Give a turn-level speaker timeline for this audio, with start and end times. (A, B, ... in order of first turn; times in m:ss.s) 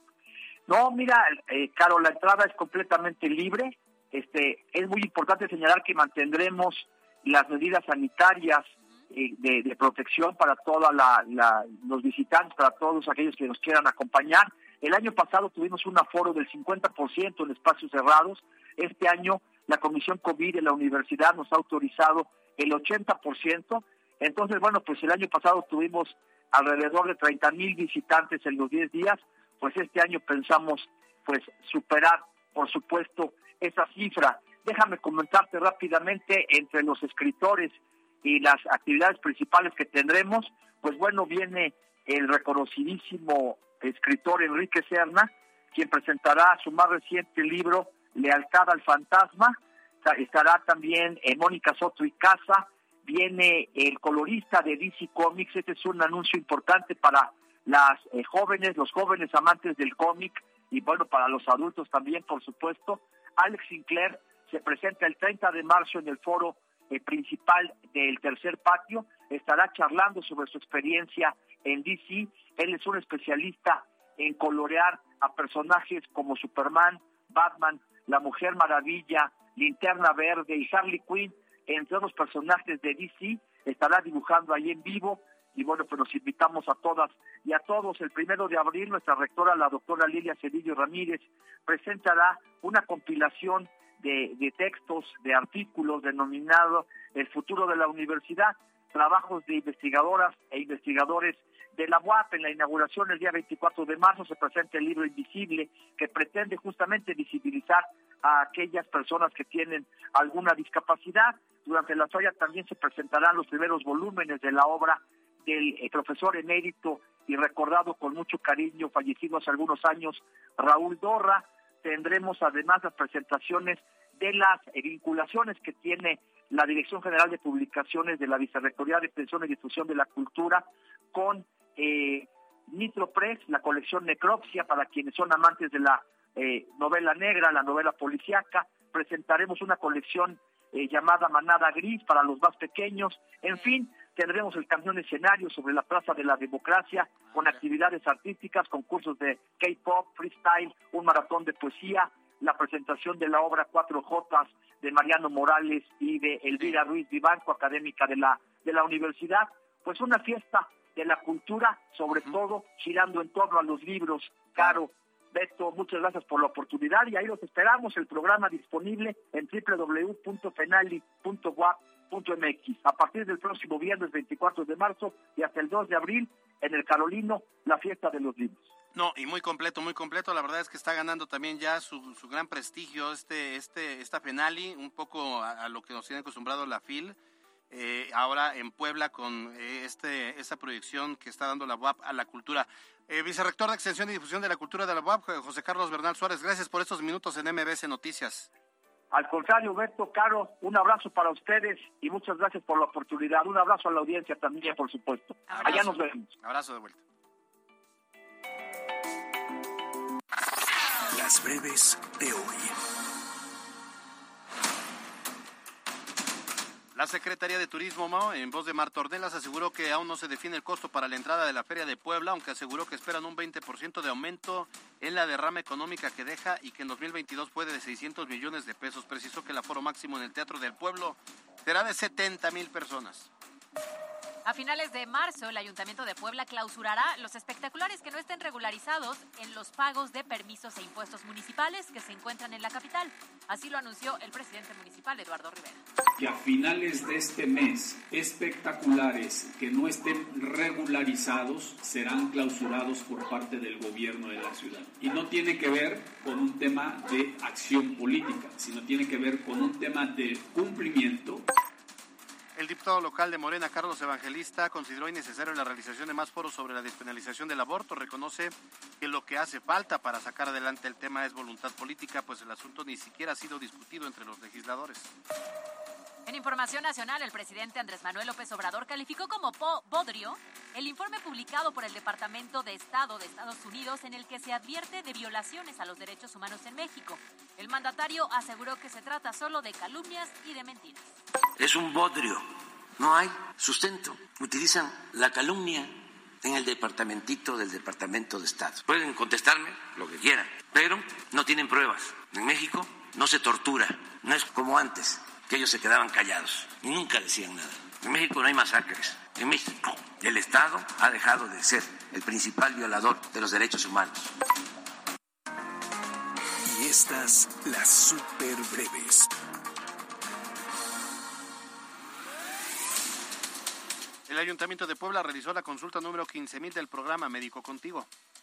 0:00.7-2:58.7 A
2:42.1-2:42.4 B
2:58.9-3:07.2 B
3:07.7-3:18.5 B
3:19.1-3:26.3 A
3:25.6-3:27.0 B
3:31.1-3:32.7 C
3:36.9-3:53.3 B
3:54.4-4:05.8 D
4:06.2-4:21.4 E
4:22.6-4:35.1 B
4:36.2-4:51.1 D
4:51.6-5:14.3 F
5:16.6-5:19.3 C
5:24.3-5:28.1 B